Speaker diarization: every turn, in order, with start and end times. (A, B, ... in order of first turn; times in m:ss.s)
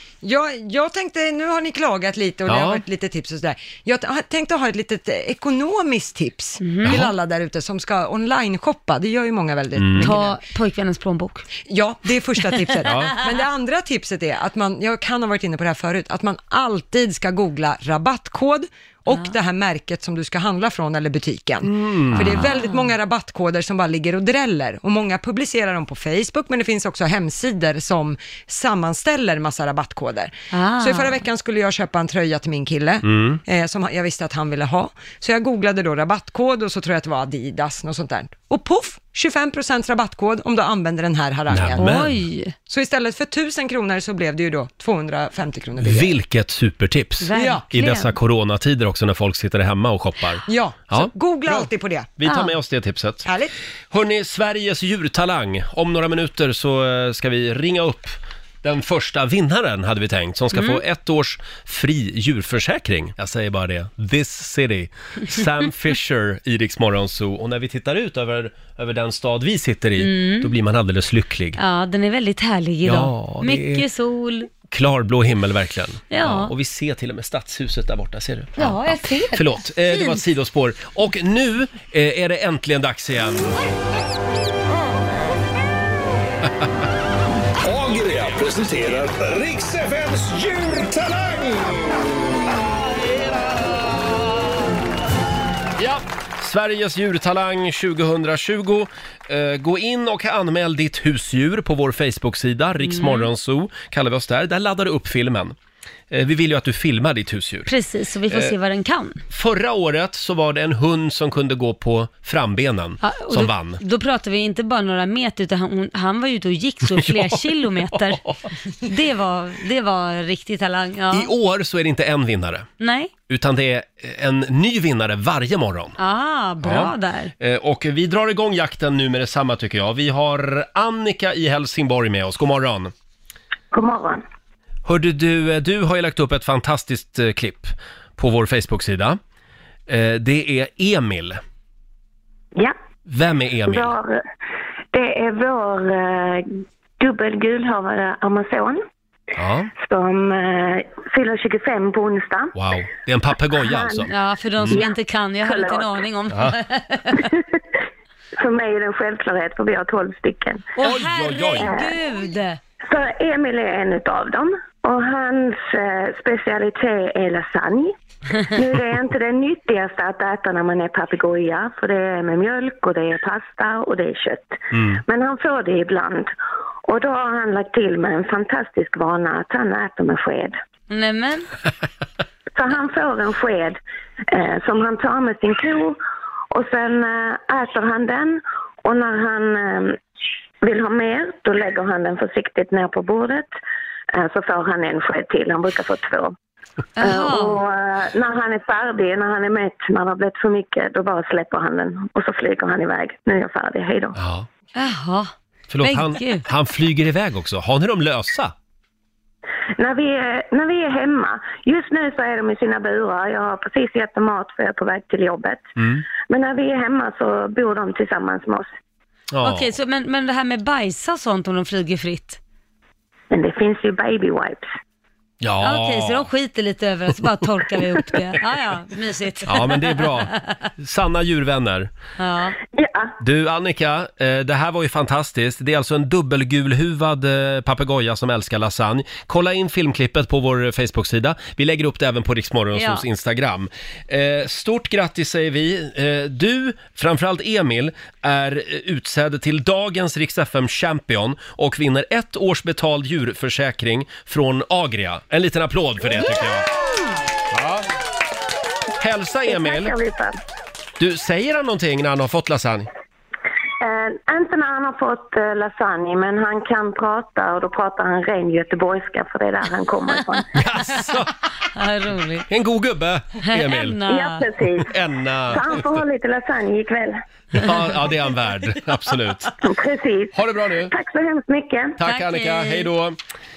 0:00.2-0:10.4 A
0:02.5-0:02.8 B
0:06.6-0:07.0 C
0:06.8-0:07.1 B
0:09.8-0:10.1 B
0:10.0-0:11.5 C
0:11.7-0:42.0 A
0:12.8-0:13.2 B
0:21.6-0:22.4 B
0:22.2-0:22.8 C
0:30.5-0:31.2 C
0:33.0-0:33.4 B
0:41.5-0:42.1 B
0:41.8-0:42.5 C
0:42.7-0:46.2 A
0:45.8-0:53.3 B
0:47.2-0:48.1 C
0:47.3-0:47.6 A
0:50.5-0:52.1 A
0:52.2-0:52.5 C
0:53.2-0:53.5 A
0:53.9-1:11.6 B
1:00.5-1:00.8 C
1:10.0-1:10.5 C
1:11.6-1:14.5 C
1:12.8-1:13.8 B
1:14.7-1:23.5 B
1:16.1-1:16.5 C
1:18.6-1:20.2 C
1:27.6-1:31.9 D
1:32.9-1:33.8 B
1:35.8-1:45.6 B
1:42.8-1:43.3 C
1:46.1-1:47.7 B
1:47.7-1:49.2 C
1:49.3-1:53.8 B
1:53.0-1:58.2 C
1:57.0-1:57.4 B
1:57.9-1:58.5 B
1:58.8-2:01.3 C
2:01.1-2:02.7 B
2:02.8-2:03.1 C
2:03.3-2:06.0 B
2:06.0-2:07.3 C
2:06.6-2:12.9 B
2:13.7-2:14.2 E
2:14.8-2:19.2 B
2:19.9-2:21.4 B
2:23.1-2:24.0 B
2:23.7-2:24.2 E
2:24.9-2:28.8 E
2:29.4-2:29.7 B
2:29.8-2:32.5 E
2:32.5-2:34.8 B
2:33.6-2:34.1 E
2:34.1-2:37.3 C
2:34.7-2:36.0 E
2:36.3-2:36.6 B
2:37.2-2:37.6 E
2:38.4-2:40.7 E
2:40.8-2:42.6 C
2:40.8-2:41.7 B
2:41.6-2:41.9 E
2:42.8-2:56.3 E
2:54.7-2:55.0 B
2:56.9-3:00.6 E
3:00.9-3:01.5 C
3:02.6-3:06.0 E
3:06.5-3:10.0 E
3:10.6-3:13.5 E
3:14.1-3:16.3 E
3:17.0-3:17.6 C
3:17.0-3:24.2 E
3:24.2-3:24.5 B
3:24.8-3:26.5 C
3:25.7-3:28.5 B
3:29.8-3:35.6 E
3:35.8-3:36.0 B
3:36.3-3:38.7 E
3:39.3-3:39.7 B
3:39.4-3:42.4 C
3:43.3-3:44.7 E
3:45.4-3:46.3 B
3:45.6-3:50.7 C
3:49.5-3:51.9 B
3:52.2-3:52.6 C
3:52.7-3:53.1 E
3:53.2-4:16.7 B
4:02.7-4:03.0 C
4:17.5-4:17.9 B
4:19.0-4:19.9 B
4:19.5-4:20.4 E
4:21.0-4:22.9 B
4:23.8-4:30.4 E
4:30.5-4:31.4 B
4:31.7-4:32.5 C
4:32.5-4:34.0 B
4:33.4-4:34.5 C
4:34.1-4:35.0 E
4:34.8-4:36.0 B
4:35.5-4:37.2 E
4:37.5-4:39.6 B
4:39.6-4:42.0 E
4:40.3-4:40.9 B
4:42.0-4:43.2 B
4:42.0-4:42.9 C